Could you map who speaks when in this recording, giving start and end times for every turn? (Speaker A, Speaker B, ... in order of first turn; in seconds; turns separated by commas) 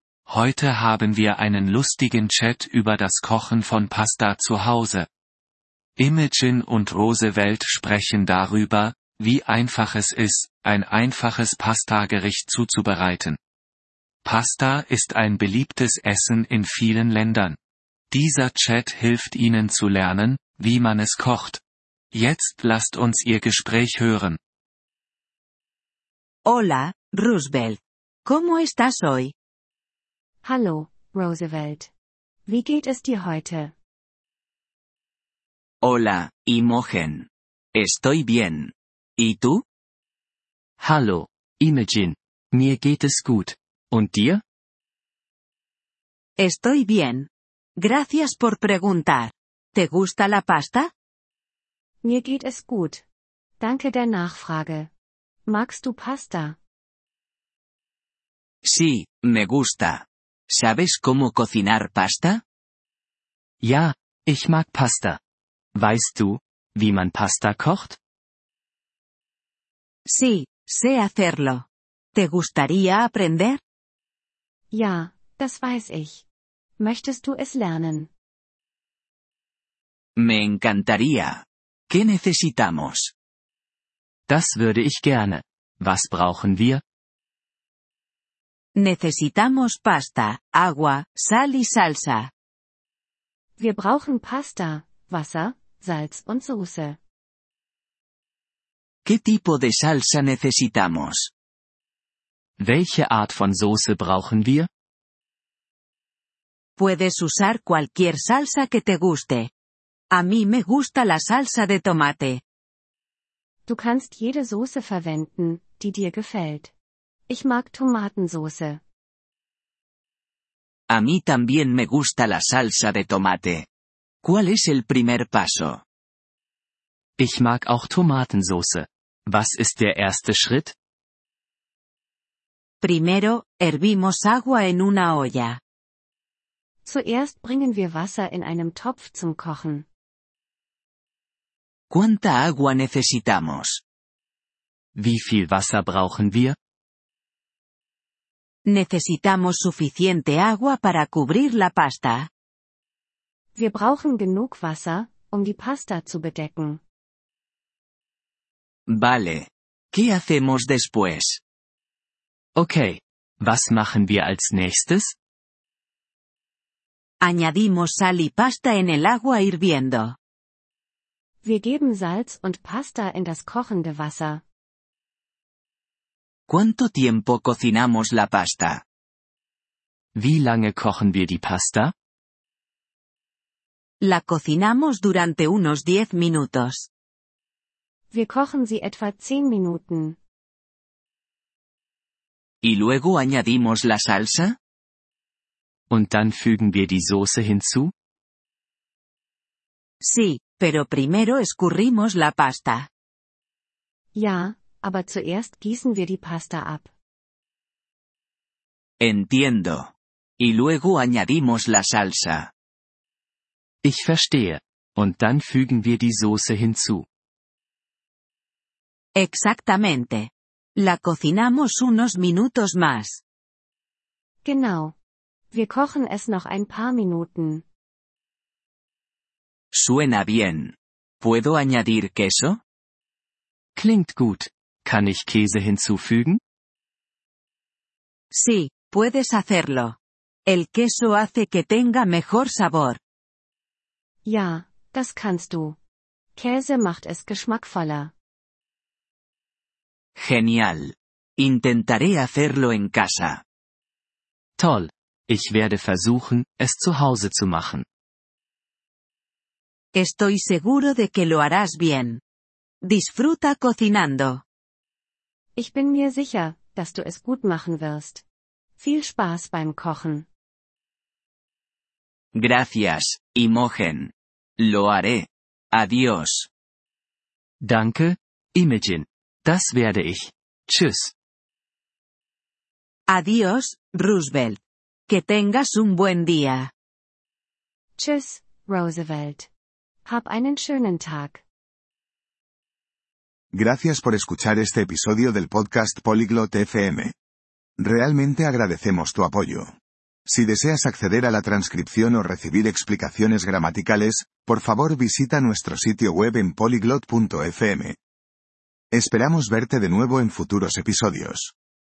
Speaker A: 0.3-5.1, Speaker A: 6.0-13.4, Speaker A: 14.2-17.6, Speaker A: 18.1-21.6, Speaker A: 22.1-24.4, Speaker B: 26.4-29.3, Speaker C: 30.4-31.9, Speaker C: 32.5-33.7, Speaker D: 35.8-39.6, Speaker E: 40.8-44.4, Speaker B: 46.4-50.9, Speaker C: 52.0-53.0, Speaker C: 53.6-54.9, Speaker C: 55.5-56.6, Speaker D: 58.6-62.4, Speaker E: 63.6-65.2, Speaker E: 65.7-68.0, Speaker B: 70.1-73.6, Speaker C: 74.7-76.2, Speaker C: 76.8-78.1, Speaker D: 80.2-83.1, Speaker E: 84.3-86.8, Speaker B: 88.8-92.3, Speaker C: 93.6-97.0, Speaker D: 99.0-101.3, Speaker E: 102.6-104.7, Speaker B: 106.8-109.5, Speaker B: 110.1-112.4, Speaker C: 113.7-116.7, Speaker C: 117.3-118.8, Speaker D: 120.9-123.7, Speaker D: 124.2-125.8, Speaker E: 127.2-130.7, Speaker B: 132.8-135.6, Speaker C: 136.8-139.8, Speaker D: 141.9-143.8, Speaker E: 144.9-146.6, Speaker B: 148.7-152.3, Speaker C: 153.5-156.8, Speaker D: 158.9-161.4, Speaker E: 162.6-165.1, Speaker B: 167.2-170.2, Speaker C: 171.4-174.4, Speaker D: 176.5-178.8, Speaker E: 180.1-181.9, Speaker B: 184.0-186.9, Speaker C: 188.1-190.2, Speaker D: 192.6-194.6, Speaker E: 195.9-197.9, Speaker B: 200.0-202.9, Speaker C: 204.1-206.9, Speaker D: 209.0-212.5, Speaker E: 213.8-217.0, Speaker B: 219.2-223.2, Speaker C: 224.4-224.9, Speaker C: 225.5-227.6, Speaker D: 229.7-232.6, Speaker E: 233.8-236.4, Speaker B: 238.3-243.0, Speaker C: 244.2-245.8, Speaker C: 246.3-248.1, Speaker D: 250.2-253.4, Speaker E: 254.6-257.8, Speaker B: 259.9-262.2, Speaker B: 262.8-264.4, Speaker C: 265.6-268.2, Speaker C: 268.8-270.3, Speaker D: 272.3-276.5, Speaker E: 277.6-281.1, Speaker B: 283.1-286.7, Speaker C: 288.0-289.5, Speaker C: 290.0-291.4, Speaker F: 293.5-297.1, Speaker F: 297.8-299.7, Speaker F: 300.2-308.0, Speaker F: 308.9-311.5